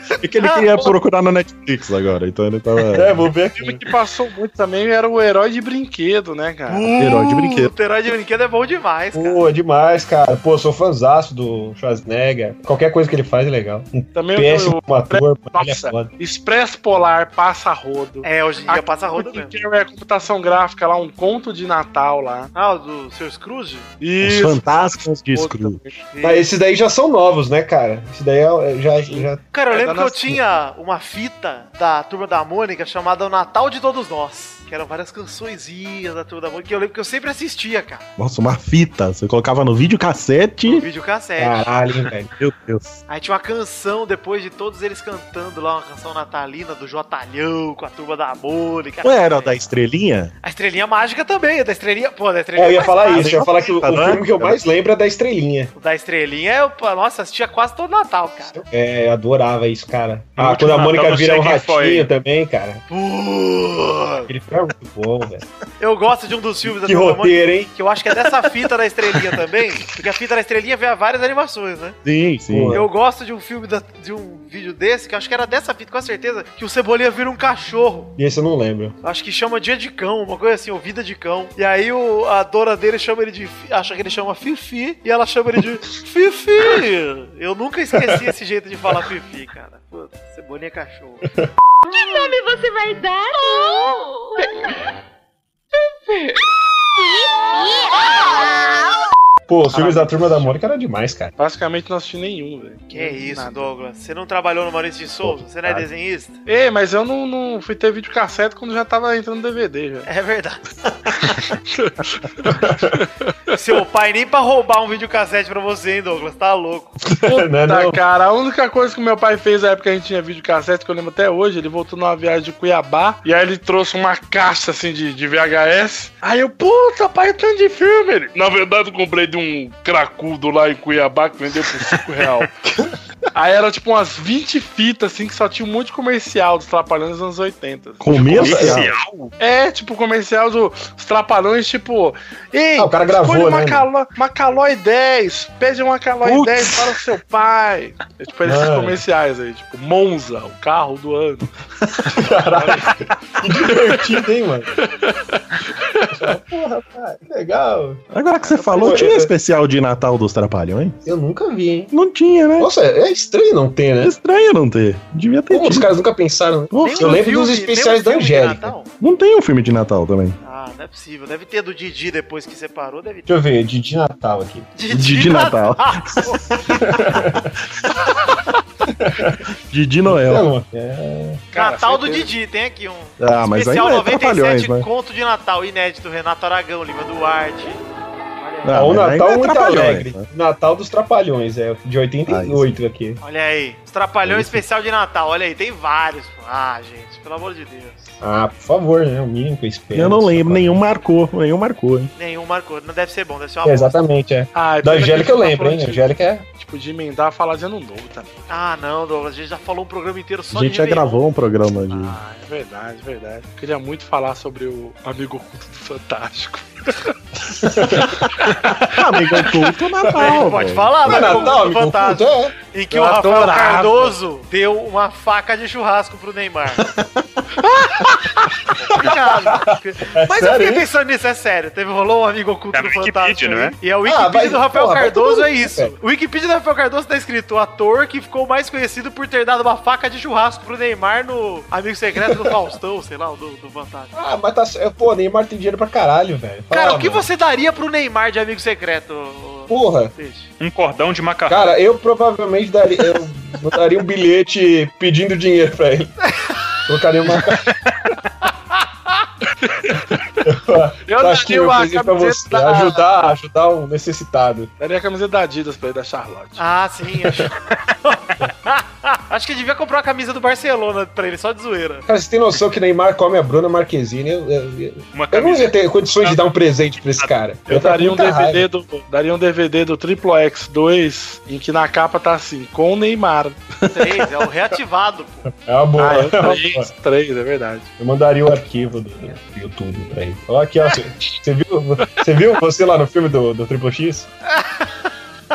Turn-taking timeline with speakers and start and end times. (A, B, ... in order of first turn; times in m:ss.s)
0:00.2-0:03.3 A
0:00.4-0:00.9 B
0:02.9-0:03.8 C
0:03.6-0:06.9 D
0:06.7-0:09.4 B
0:06.9-0:07.7 A
0:09.1-0:16.1 C
0:14.1-0:22.5 D
0:18.2-0:19.5 B
0:22.5-0:23.9 B
0:24.0-0:26.0 D
0:24.2-0:25.9 A
0:26.1-0:26.5 B
0:26.2-0:29.4 C
0:29.1-0:30.4 D
0:29.5-0:38.1 B
0:38.2-0:40.9 A
0:40.6-0:41.7 B
0:41.4-0:42.3 C
0:42.3-0:43.0 A
0:43.1-0:49.8 B
0:49.0-0:50.3 A
0:50.4-0:53.6 B
0:52.6-0:55.7 C
0:53.1-0:54.6 A
0:55.8-0:58.6 B
0:58.6-1:02.8 C
1:00.4-1:02.1 E
1:02.9-1:04.3 B
1:04.3-1:05.4 C
1:05.8-1:12.0 B
1:06.6-1:07.7 C
1:12.0-1:12.9 A
1:12.5-1:12.8 C
1:12.7-1:18.1 B
1:18.2-1:18.9 C
1:19.0-1:31.3 B
1:32.0-1:33.9 F
1:39.5-1:41.3 C
1:39.7-1:40.5 D
1:41.4-1:43.7 D
1:42.9-1:46.4 B
1:45.3-1:45.8 C
1:46.4-1:50.1 D
1:50.0-1:50.6 B
1:51.7-1:53.3 D
1:52.6-1:53.0 C
1:53.5-1:56.9 B
1:57.1-1:58.0 C
1:57.2-2:12.5 D
2:13.3-2:18.7 D
2:18.0-2:18.9 A
2:18.3-2:18.9 C
2:18.3-2:19.3 E
2:19.4-2:31.5 D
2:22.8-2:23.9 C
2:26.2-2:26.9 A
2:28.4-2:29.0 C
2:32.1-2:34.7 C
2:32.2-2:32.9 D
2:34.8-2:36.1 D
2:36.1-2:38.0 C
2:38.1-2:41.0 A
2:38.7-2:39.3 C
2:41.0-2:41.9 C
2:41.9-2:42.7 A
2:42.6-2:44.2 C
2:44.0-2:45.9 A
2:45.5-2:48.7 C
2:46.7-2:47.3 A
2:46.8-2:48.9 B
2:49.0-2:50.4 A
2:50.4-2:53.3 B
2:53.3-2:54.7 C
2:54.7-2:56.4 B
2:54.9-2:58.3 A
2:56.7-2:57.5 C
2:59.0-2:59.4 C
2:59.6-3:00.5 A
3:00.0-3:01.4 C
3:01.5-3:02.3 D
3:01.5-3:07.8 B
3:03.2-3:04.9 A
3:08.4-3:08.9 B
3:08.6-3:10.3 A
3:08.7-3:13.2 C
3:12.3-3:12.7 A
3:13.2-3:18.2 B
3:14.2-3:14.6 A
3:18.2-3:20.8 C
3:19.9-3:22.1 A
3:22.2-3:24.0 B
3:23.6-3:26.4 C
3:24.5-3:28.4 D
3:28.5-3:31.2 B
3:30.5-3:32.2 A
3:31.9-3:37.1 D
3:37.6-3:41.4 A
3:37.6-3:38.2 C
3:40.1-3:46.9 B
3:41.0-3:42.5 C
3:42.9-3:44.1 D
3:48.7-4:04.1 B
3:49.0-3:50.9 C
3:52.7-3:53.7 E
3:54.0-3:55.9 C
4:04.1-4:07.2 C
4:06.7-4:10.5 B
4:09.7-4:10.1 C
4:10.6-4:11.7 E
4:11.5-4:16.2 C
4:16.8-4:17.7 C
4:19.6-4:20.0 D
4:20.4-4:24.7 C
4:21.0-4:23.1 D
4:24.8-4:26.6 D
4:26.6-4:32.0 B
4:32.1-4:38.7 C
4:35.1-4:36.4 E
4:37.7-4:43.6 D
4:43.9-4:45.5 B
4:45.6-4:46.9 C
4:46.0-4:47.9 D
4:48.0-4:54.3 C
4:54.5-4:55.1 B